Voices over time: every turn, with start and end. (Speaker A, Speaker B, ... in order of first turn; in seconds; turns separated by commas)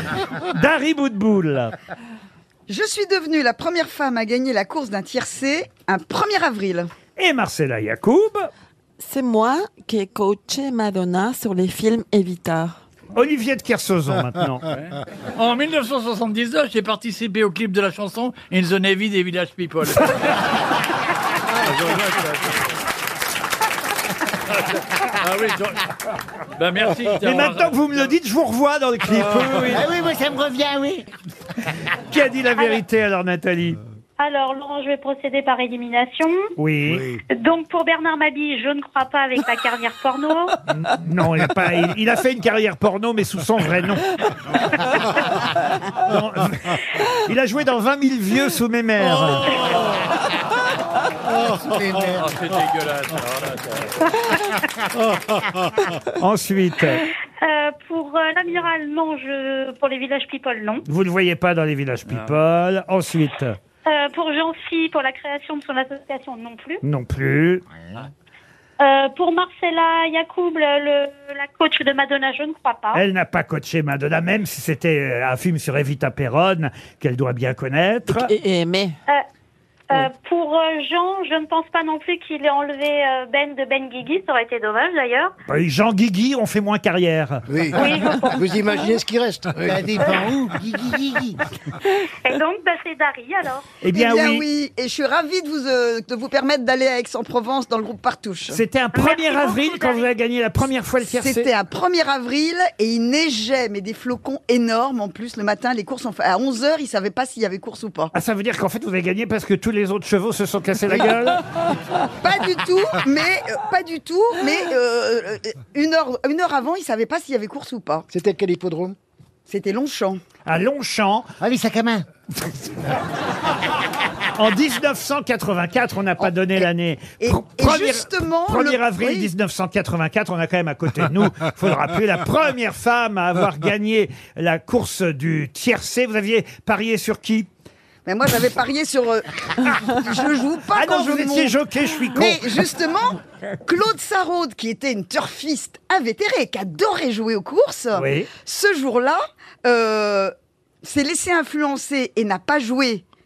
Speaker A: 0.3-1.7, Speaker B: 2.7-6.9, Speaker A: 7.2-8.5, Speaker C: 9.0-12.8, Speaker A: 13.1-14.7, Speaker D: 14.7-20.4, Speaker D: 21.5-22.6, Speaker D: 24.5-25.9, Speaker D: 26.6-28.1, Speaker A: 27.2-29.9, Speaker E: 29.6-31.1, Speaker A: 31.9-33.8, Speaker F: 32.6-32.8, Speaker F: 34.2-36.5, Speaker A: 36.6-37.1, Speaker E: 36.9-37.2, Speaker F: 37.3-40.6, Speaker A: 40.7-44.1, Speaker A: 46.0-49.7, Speaker D: 51.6-54.0, Speaker A: 56.1-57.1, Speaker F: 57.4-60.8, Speaker A: 60.9-63.5, Speaker F: 63.9-66.8, Speaker A: 66.8-67.6, Speaker F: 68.8-73.0, Speaker A: 72.9-78.3, Speaker C: 78.1-79.0, Speaker F: 79.9-85.3, Speaker A: 85.5-87.4, Speaker G: 87.5-89.9, Speaker F: 87.8-88.5, Speaker E: 89.6-91.4, Speaker F: 91.9-93.8, Speaker A: 93.8-94.5, Speaker B: 93.9-98.6, Speaker A: 98.5-101.5, Speaker F: 98.9-100.1, Speaker B: 101.0-108.1, Speaker A: 108.1-111.4, Speaker B: 112.2-118.1, Speaker G: 118.1-119.0, Speaker B: 119.5-120.2, Speaker A: 120.5-121.3, Speaker E: 121.4-122.1, Speaker A: 124.3-137.5, Speaker B: 126.2-126.7, Speaker B: 127.2-129.3, Speaker B: 138.1-141.6, Speaker A: 140.7-142.4, Speaker B: 142.1-153.0, Speaker A: 147.9-148.3